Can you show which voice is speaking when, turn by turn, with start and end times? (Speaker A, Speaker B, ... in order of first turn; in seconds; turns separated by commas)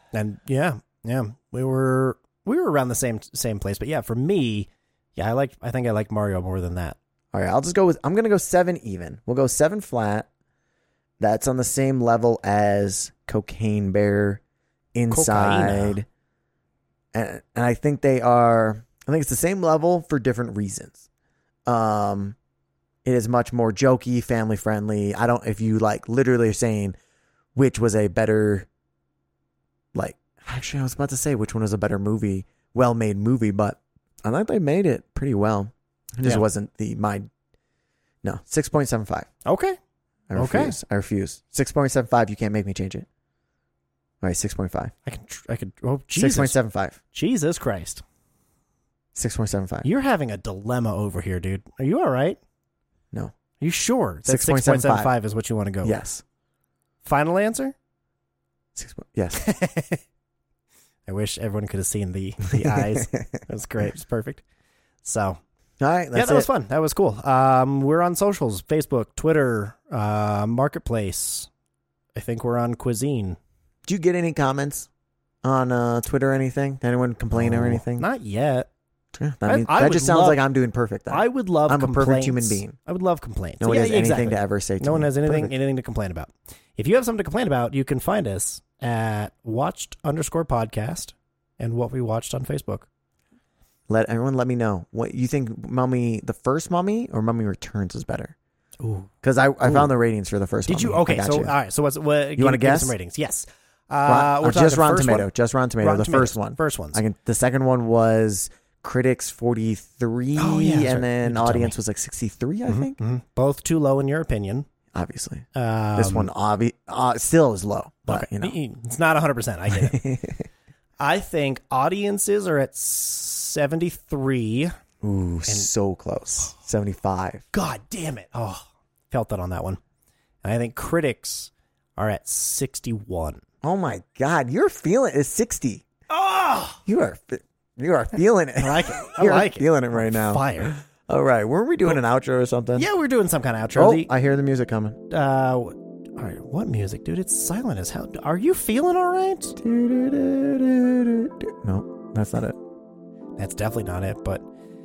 Speaker A: 0.1-7.0, Speaker B: 7.3-10.3, Speaker B: 11.2-14.4, Speaker B: 14.9-16.1, Speaker A: 15.1-16.0, Speaker B: 17.1-21.0, Speaker B: 21.7-22.4, Speaker B: 23.0-26.9, Speaker B: 27.5-28.7, Speaker B: 29.9-37.2, Speaker B: 38.2-39.3, Speaker A: 39.4-39.8, Speaker B: 40.3-43.0, Speaker A: 40.4-40.8, Speaker B: 44.2-44.9, Speaker A: 45.0-46.5, Speaker B: 46.1-47.0, Speaker A: 47.1-48.0, Speaker B: 49.1-49.9, Speaker A: 49.8-52.4, Speaker A: 53.6-56.0, Speaker B: 54.2-55.1, Speaker B: 55.8-56.2, Speaker A: 57.0-57.7, Speaker B: 58.7-59.4, Speaker A: 59.3-60.0, Speaker A: 61.1-64.4, Speaker B: 62.5-63.4, Speaker A: 65.0-65.4, Speaker B: 65.8-66.5, Speaker A: 66.1-71.5, Speaker A: 72.2-73.4, Speaker B: 73.8-74.9, Speaker B: 75.4-78.1, Speaker A: 77.3-78.7, Speaker B: 79.1-82.8, Speaker A: 79.5-80.4, Speaker A: 81.1-92.9, Speaker B: 83.6-85.5, Speaker B: 93.9-98.3, Speaker A: 98.8-99.1, Speaker B: 99.2-101.5, Speaker A: 100.7-105.3, Speaker B: 102.4-102.9, Speaker B: 104.0-113.0, Speaker A: 105.8-107.0, Speaker A: 110.4-111.7, Speaker A: 112.7-114.7, Speaker B: 114.9-118.5, Speaker A: 115.5-116.3, Speaker A: 118.1-120.0, Speaker B: 119.7-120.4, Speaker A: 121.0-124.8, Speaker B: 125.0-127.4, Speaker A: 127.5-129.8, Speaker A: 130.4-133.4, Speaker B: 133.6-135.8, Speaker A: 136.1-136.8, Speaker B: 136.8-142.9, Speaker A: 138.6-140.8, Speaker A: 142.8-144.1, Speaker B: 143.7-145.0, Speaker A: 145.1-149.6, Speaker B: 149.6-152.6, Speaker A: 153.4-154.4